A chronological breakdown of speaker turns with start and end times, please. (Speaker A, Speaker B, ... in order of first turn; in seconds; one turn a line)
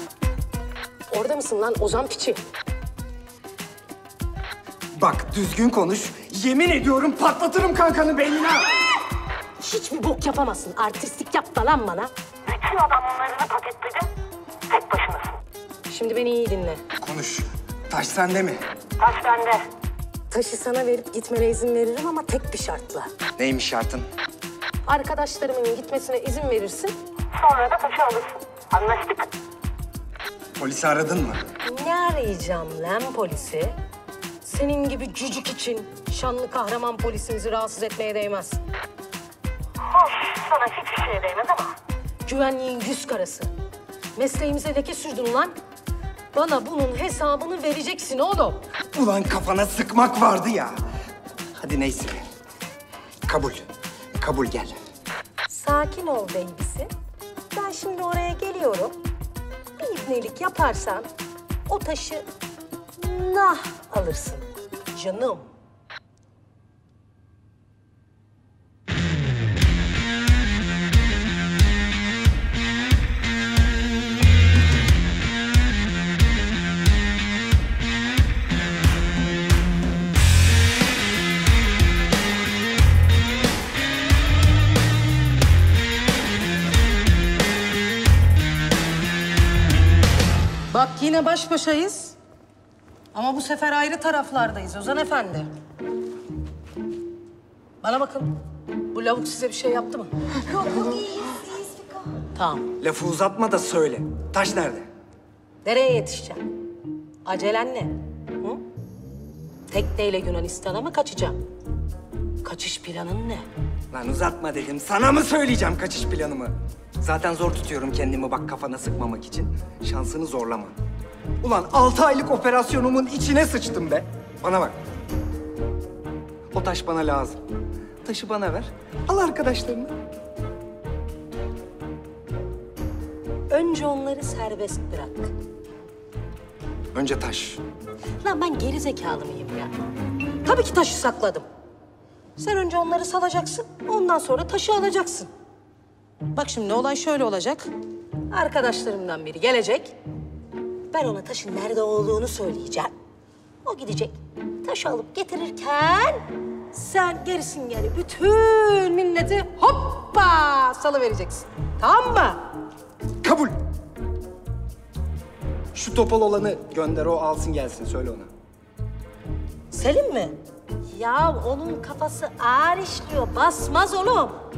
Speaker A: 1.1-2.4
Speaker B: 5.0-8.8
Speaker A: 9.6-12.1
Speaker C: 12.5-14.1
Speaker C: 14.7-15.3
Speaker A: 15.9-16.8
Speaker B: 17.0-18.6
Speaker C: 19.0-19.6
Speaker A: 20.3-23.1
Speaker B: 23.4-24.1
Speaker A: 24.9-27.0
Speaker C: 27.4-29.3
Speaker B: 30.6-31.5
Speaker A: 31.6-33.8
Speaker A: 34.4-38.6
Speaker C: 40.0-41.7
Speaker A: 42.3-43.5
Speaker A: 44.2-45.5
Speaker A: 46.3-48.6
Speaker B: 48.9-50.8
Speaker B: 51.6-52.3
Speaker B: 53.3-54.8
Speaker A: 55.5-56.9
Speaker A: 57.5-59.0
Speaker A: 59.8-61.1
Speaker A: 61.7-62.3
Speaker A: 63.0-65.5
Speaker A: 90.7-92.2
Speaker A: 93.1-95.5
Speaker A: 97.8-98.4
Speaker A: 98.9-102.7
Speaker B: 102.8-104.9
Speaker A: 105.6-106.4
Speaker A: 107.3-108.6
Speaker A: 109.7-111.4
Speaker A: 112.4-113.5
Speaker B: 113.9-120.8
Speaker B: 121.4-124.8
Speaker B: 126.5-127.4
Speaker B: 128.0-130.0
Speaker A: 133.5-135.3
Speaker B: 136.9-137.6
Speaker A: 138.2-139.8
Speaker A: 140.4-141.5
Speaker A: 142.4-145.3
Speaker A: 146.3-147.7
Speaker A: 148.3-150.0
Speaker A: 150.9-152.9
Speaker A: 153.7-156.2
Speaker A: 156.7-162.4
Speaker B: 163.2-163.6
Speaker B: 165.7-168.3
Speaker A: 169.7-170.4
Speaker A: 170.9-174.4